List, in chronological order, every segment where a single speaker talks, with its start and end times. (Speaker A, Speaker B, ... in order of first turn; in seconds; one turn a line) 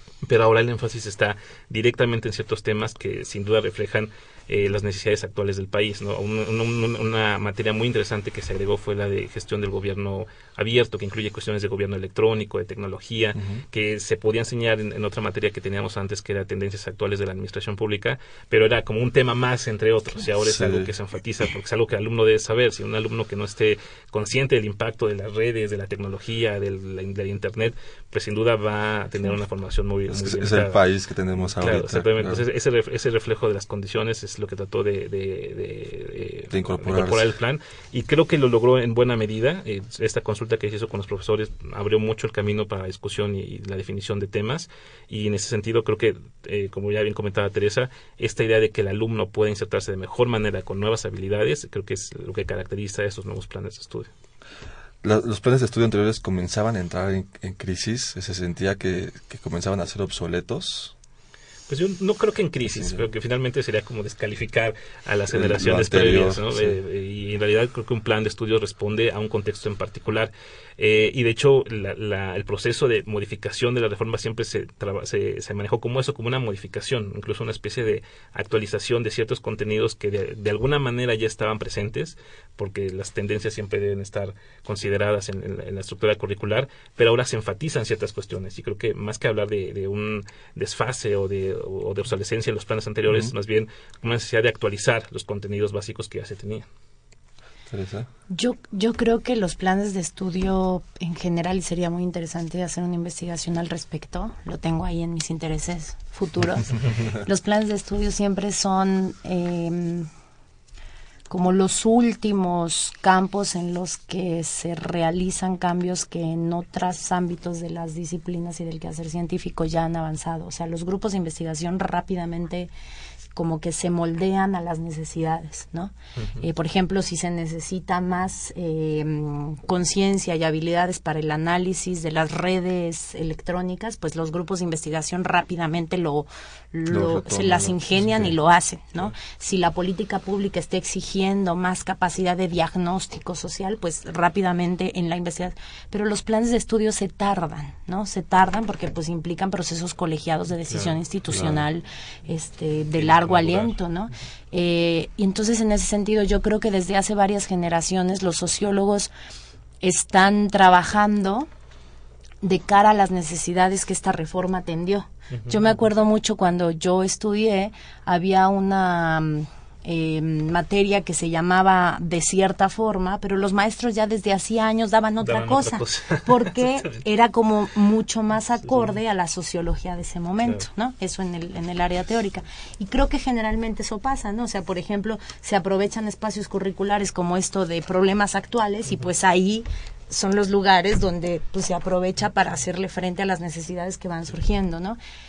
Speaker A: 0.2-30.8
Speaker B: 13.3-13.6
Speaker B: 20.4-20.9
Speaker B: 30.1-32.4
Speaker A: 31.4-54.1
Speaker B: 36.5-37.3
Speaker B: 55.0-60.9
Speaker A: 61.7-96.7
Speaker B: 62.6-63.0
Speaker B: 65.3-66.8
Speaker B: 97.7-98.1
Speaker C: 98.3-110.1
Speaker C: 111.3-122.7
Speaker C: 123.3-159.1
Speaker B: 136.9-138.3
Speaker B: 151.3-151.6
Speaker A: 152.9-153.8
Speaker C: 159.8-161.5
Speaker C: 162.4-195.0
Speaker A: 165.3-165.7
Speaker A: 175.2-177.0